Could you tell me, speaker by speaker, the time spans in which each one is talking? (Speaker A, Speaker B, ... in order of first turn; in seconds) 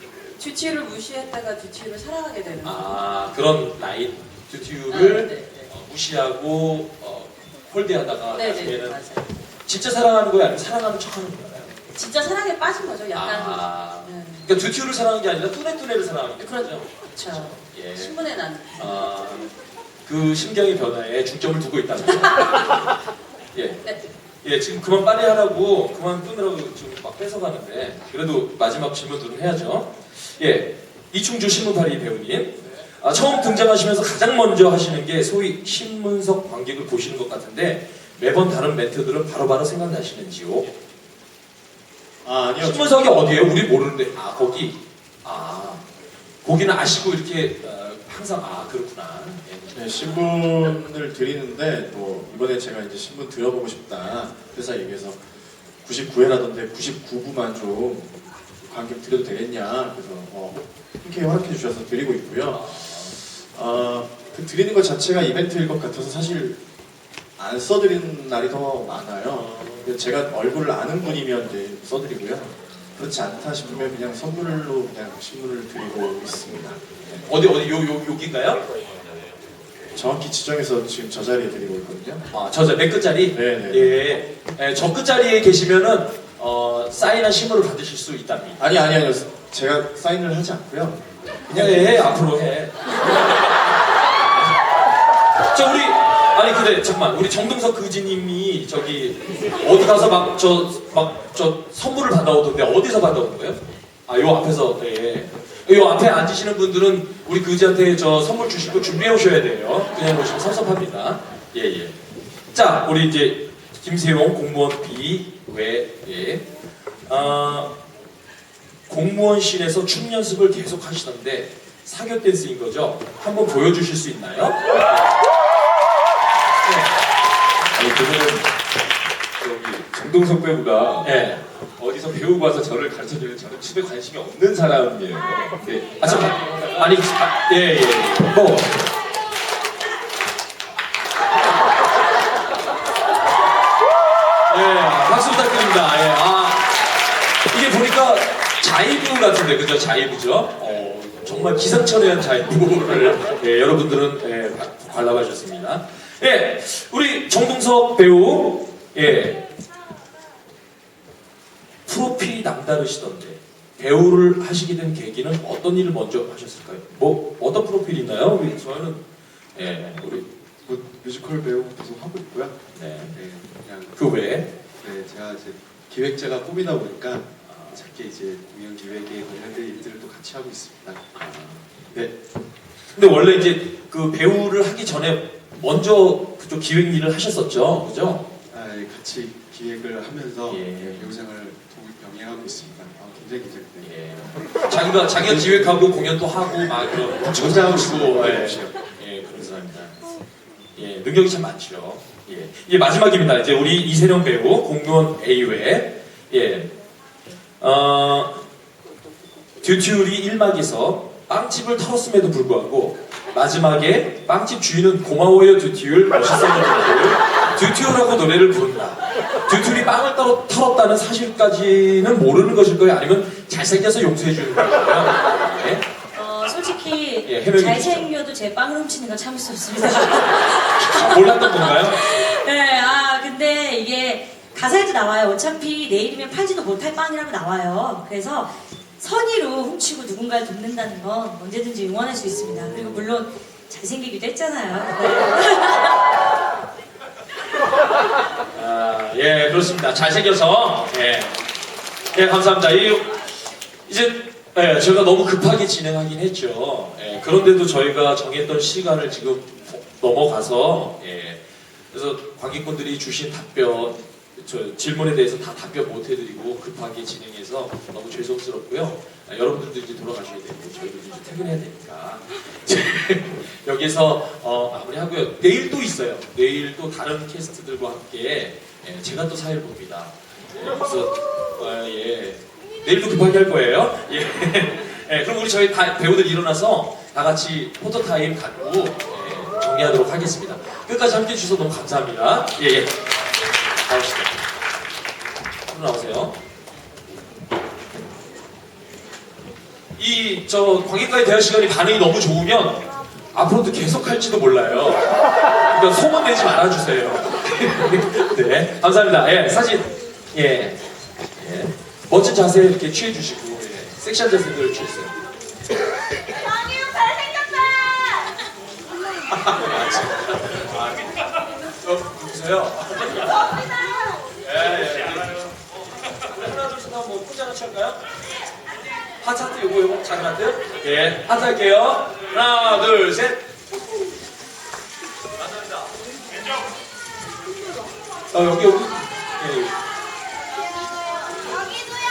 Speaker A: 0.4-3.0, 4.9-5.7, 8.3-9.2, 11.9-14.4, 16.4-18.9
Speaker B: 2.6-9.0, 9.7-11.7, 13.1-18.1, 18.8-19.5, 20.1-22.8, 23.5-23.8, 24.4-40.7, 42.6-45.8, 46.4-49.6, 62.5-63.1, 69.3-69.9, 77.2-78.7, 82.3-88.6, 91.5-93.5, 95.5-111.9, 112.5-116.4, 117.1-117.8, 118.9-125.2, 131.0-131.4, 136.0-138.9, 144.5-147.0, 147.5-159.4, 161.9-169.0, 169.5-170.3, 172.7-173.1, 173.9-174.5, 177.5-177.8, 181.2-181.6, 182.9-188.2, 190.5-191.1, 193.8-199.9, 200.8-206.7, 207.6-208.4, 209.6-225.8, 227.2-228.1, 230.7-232.0, 248.5-251.3, 252.1-253.1, 253.9-261.4, 261.9-292.9, 293.8-294.4, 295.7-296.4, 300.0-305.1, 305.7-310.8, 311.4-315.1, 319.3-321.1, 321.7-323.6, 324.4-325.6, 326.2-328.0, 329.2-333.4, 338.3-339.7
Speaker C: 42.2-43.4, 49.7-55.2, 55.8-66.6, 67.4-77.2, 79.9-82.2, 83.3-84.0, 88.6-92.1
Speaker D: 127.7-128.5, 129.4-131.1, 131.8-137.1
Speaker E: 170.6-172.6, 173.1-174.0, 174.8-181.2, 188.5-193.9, 195.1-196.0, 197.3-198.7
Speaker F: 226.1-245.9